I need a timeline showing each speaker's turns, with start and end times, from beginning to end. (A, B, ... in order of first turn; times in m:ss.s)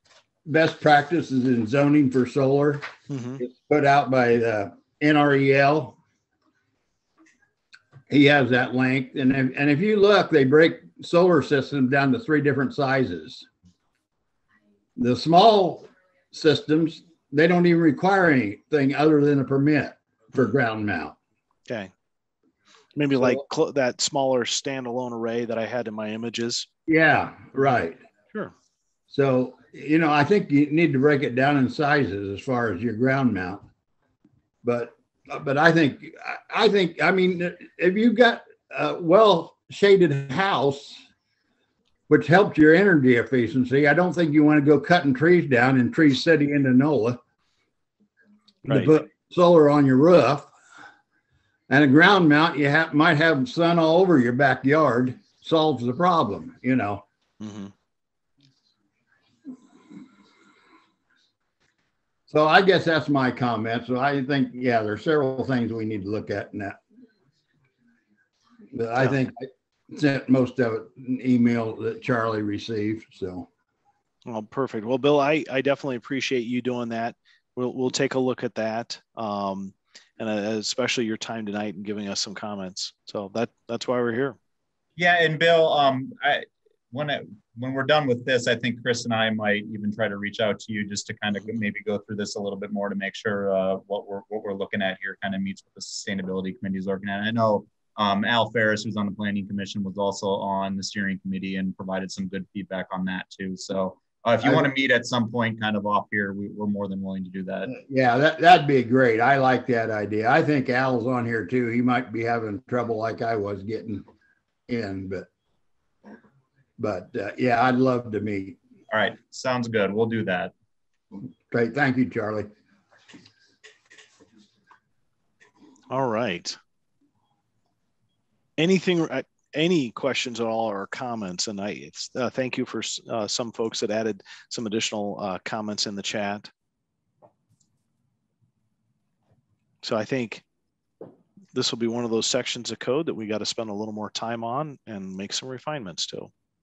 0:00.4-0:02.9 A
0:03.1-0:03.4 B
0:03.4-0:06.0 A
0:08.1-0:13.4 A
0:15.0-0:21.2 A
0:22.9-0:26.7 B
0:26.9-0:28.0 A
0:29.1-0:33.6 A
0:34.6-0:41.0 A
0:42.1-0:47.2 A
0:48.6-0:48.9 B
0:48.6-0:50.5 A
0:51.7-0:57.0 A
0:57.4-0:57.7 B
1:02.3-1:06.8 A
1:08.7-1:13.5 A
1:14.2-1:24.4 B
1:25.0-1:47.8 C
1:44.4-1:44.7 A
1:47.7-1:54.0 A
1:54.7-1:55.3 A
1:56.8-1:58.6 A
1:58.9-2:00.5 C
2:01.5-2:02.5 A
2:05.9-2:06.6 B
2:08.6-2:16.5 B
2:19.8-2:20.4 B
2:21.5-2:26.3 B